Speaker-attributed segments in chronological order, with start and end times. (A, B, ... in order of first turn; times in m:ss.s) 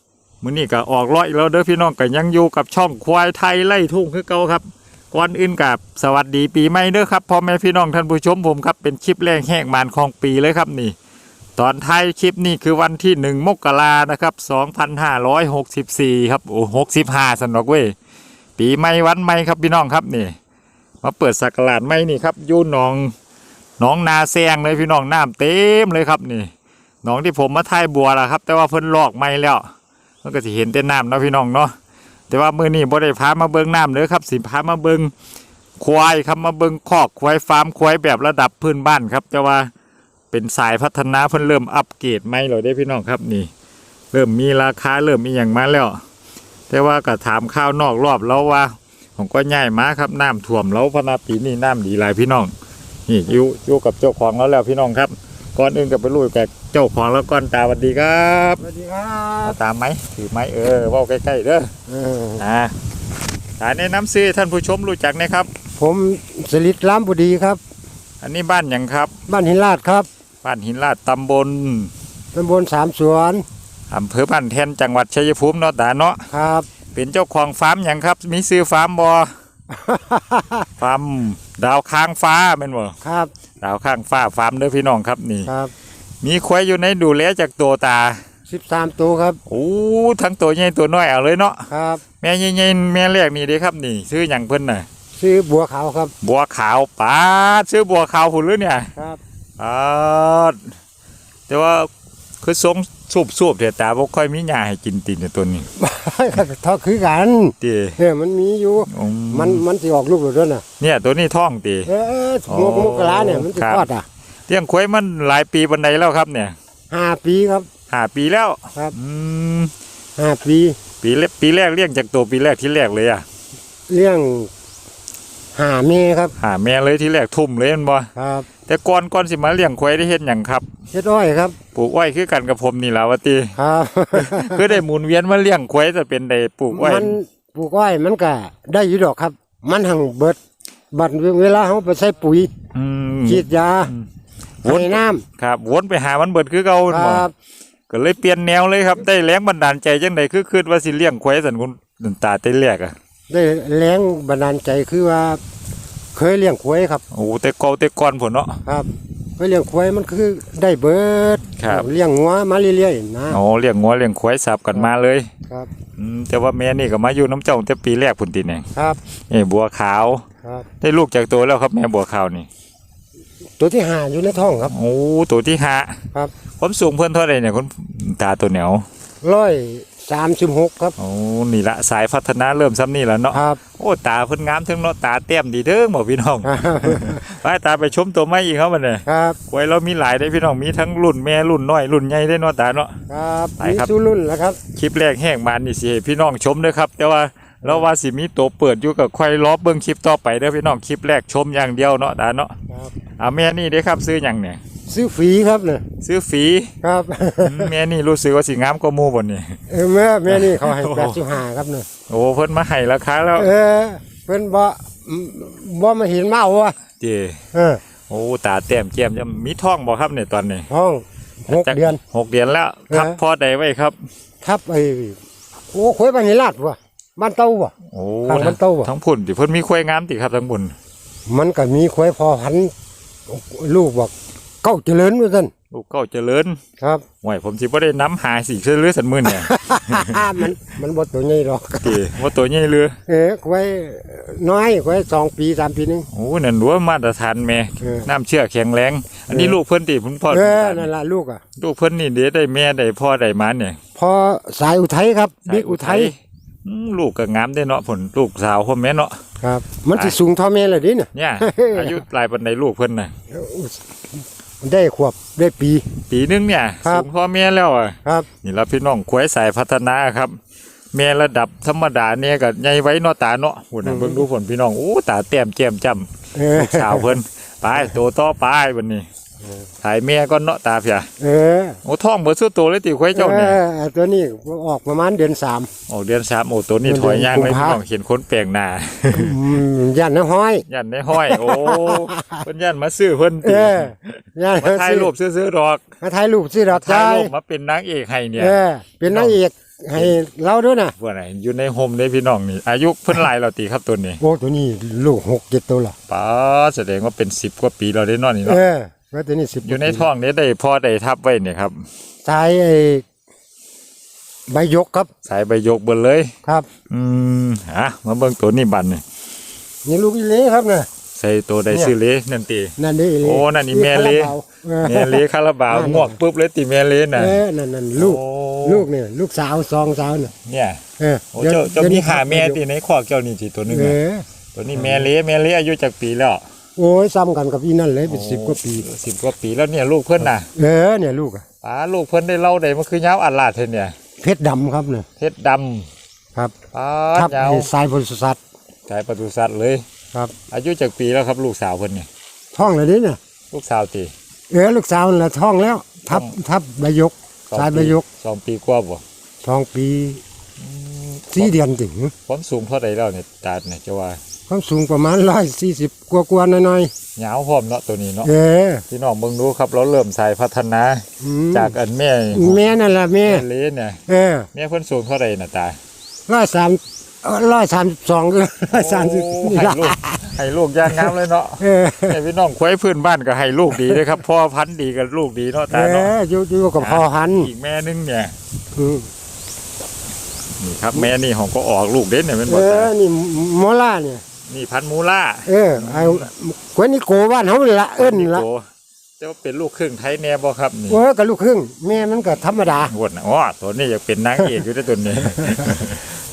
0:00.4-0:11.0 A
0:11.6-0:17.9 A
0:18.6-0:20.4 A
0:21.0-0:23.1 A
0:23.8-0:26.5 A
0:27.0-0:29.7 A
0:30.2-0:31.8 A
0:32.3-0:35.1 A
0:35.8-0:39.7 A
0:40.3-0:43.5 A
0:44.1-0:46.0 A
0:46.7-0:52.5 A
0:53.1-0:58.6 A
0:58.6-0:59.6 B
0:59.4-1:01.7 A
1:01.9-1:02.4 B
1:02.4-1:02.7 A
1:03.6-1:05.5 A
1:05.8-1:07.6 B
1:08.2-1:09.2 A
1:09.3-1:10.1 B
1:10.4-1:11.9 A
1:12.3-1:13.4 B
1:13.9-1:16.3 A
1:16.3-1:16.7 B
1:17.0-1:19.3 A
1:19.7-1:20.7 B
1:20.8-1:23.0 A
1:23.0-1:23.3 B
1:23.6-1:25.5 A
1:25.5-1:25.7 B
1:26.2-1:28.2 A
1:28.5-1:29.4 B
1:29.5-1:31.7 A
1:31.7-1:32.0 B
1:32.2-1:34.9 A
1:35.2-1:36.1 B
1:36.2-1:38.9 A
1:39.6-1:40.7 A
1:41.5-1:41.9 A
1:42.4-1:45.7 A
1:45.8-1:50.6 B
1:47.6-1:48.0 A
1:48.9-1:49.6 A
1:50.8-1:51.9 A
1:51.9-1:54.1 B
1:52.5-1:53.9 A
1:54.5-1:56.6 A
1:56.9-1:57.7 B
1:57.9-1:59.7 A
2:00.2-2:00.8 B
2:01.0-2:03.2 A
2:03.9-2:04.5 B
2:05.6-2:06.3 B
2:06.4-2:08.1 A
2:08.2-2:08.5 B
2:08.6-2:10.7 A
2:10.9-2:11.6 B
2:11.8-2:13.6 A
2:13.6-2:14.8 B
2:14.2-2:17.2 A
2:16.7-2:20.4 B
2:20.9-2:22.5 B
2:22.7-2:24.1 A
2:23.3-2:23.9 B
2:24.6-2:25.2 B
2:24.6-2:27.3 A
2:26.9-2:27.3 B
2:27.9-2:33.0 A
2:33.3-2:35.4 B
2:36.2-2:37.0 B
2:37.1-2:38.6 A
2:38.7-2:43.4 B
2:41.6-2:41.9 A
2:43.3-2:45.3 A
2:46.0-2:50.2 A
2:48.8-2:49.0 B
2:50.8-2:52.5 A
2:53.6-2:54.7 B
2:54.7-2:56.0 A
2:56.6-2:58.8 A
2:59.2-3:01.0 B
3:01.0-3:13.0 A
3:03.3-3:03.6 B
3:06.4-3:07.2 B
3:09.1-3:09.4 B
3:13.1-3:14.6 B
3:13.6-3:13.9 A
3:14.7-3:22.6 A
3:23.2-3:24.6 A
3:24.9-3:25.8 B
3:26.0-3:26.7 A
3:26.8-3:27.7 B
3:27.4-3:29.6 A
3:29.7-3:31.9 B
3:30.3-3:31.2 A
3:32.1-3:33.5 A
3:33.4-3:36.8 B
3:37.0-3:37.4 A
3:37.5-3:37.8 B
3:38.1-3:40.7 A
3:40.7-3:42.0 B
3:41.5-3:44.0 A
3:42.9-3:43.2 B
3:44.4-3:45.2 B
3:45.7-3:47.7 B
3:47.9-3:50.8 A
3:48.3-3:48.9 B
3:51.3-3:52.7 B
3:53.3-3:54.1 B
3:54.6-3:55.5 B
3:55.7-3:56.6 A
3:57.2-4:00.4 A
3:59.2-4:02.0 B
4:01.8-4:03.0 A
4:03.1-4:06.1 B
4:06.1-4:10.9 A
4:07.8-4:08.1 B
4:09.3-4:09.6 B
4:10.3-4:11.4 B
4:11.6-4:13.8 A
4:14.0-4:16.1 B
4:15.4-4:19.2 A
4:19.4-4:22.0 B
4:21.1-4:23.1 A
4:23.3-4:23.8 B
4:24.6-4:25.8 B
4:26.1-4:30.4 A
4:26.8-4:27.1 B
4:30.9-4:39.0 A
4:33.8-4:34.2 B
4:36.4-4:37.1 B
4:39.8-4:41.1 A
4:41.2-4:41.8 B
4:41.8-4:43.6 A
4:43.1-4:45.7 B
4:45.9-4:49.4 A
4:46.8-4:47.8 B
4:49.1-4:52.4 B
4:50.7-4:55.8 A
4:53.4-4:55.1 B
4:56.0-4:57.3 B
4:56.7-4:58.6 A
4:58.4-5:01.0 B
4:59.1-4:59.4 A
5:01.0-5:04.2 A
5:04.2-5:06.0 B
5:06.1-5:08.6 A
5:08.4-5:10.1 B
5:09.6-5:11.9 A
5:12.2-5:13.0 B
5:14.5-5:15.1 B
5:15.2-5:16.3 A
5:16.9-5:19.0 A
5:19.9-5:20.9 B
5:21.2-5:27.4 A
5:22.8-5:26.2 B
5:27.2-5:30.3 B
5:28.0-5:28.9 A
5:30.4-5:30.8 A
5:31.0-5:32.6 B
5:31.3-5:34.0 A
5:33.7-5:35.1 B
5:34.6-5:36.4 A
5:36.8-5:38.9 B
5:38.1-5:40.5 A
5:40.6-5:41.4 B
5:41.6-5:43.9 A
5:44.2-5:45.1 B
5:45.2-5:45.9 A
5:46.7-5:47.7 A
5:47.2-5:48.4 B
5:48.9-5:49.8 A
5:50.5-5:52.1 A
5:52.5-5:53.2 B
5:53.5-5:54.1 A
5:54.5-5:58.0 B
5:56.1-5:56.3 A
5:57.5-5:59.0 A
5:59.4-6:00.2 B
6:00.6-6:01.5 A
6:01.3-6:02.1 B
6:02.3-6:04.2 A
6:04.5-6:06.9 B
6:07.2-6:08.3 A
6:08.2-6:08.8 B
6:08.9-6:12.7 A
6:11.2-6:11.7 B
6:12.3-6:13.4 B
6:13.2-6:14.0 A
6:14.1-6:14.5 B
6:14.5-6:15.8 A
6:16.3-6:20.2 B
6:18.7-6:26.1 A
6:20.9-6:22.2 B
6:23.8-6:24.0 B
6:25.7-6:27.5 B
6:26.8-6:28.3 A
6:28.8-6:29.1 B
6:30.6-6:32.9 A
6:32.5-6:34.2 B
6:34.5-6:36.3 A
6:35.5-6:38.5 B
6:38.0-6:38.7 A
6:39.2-6:41.0 A
6:40.9-6:42.9 B
6:42.9-6:46.0 A
6:45.4-6:45.8 B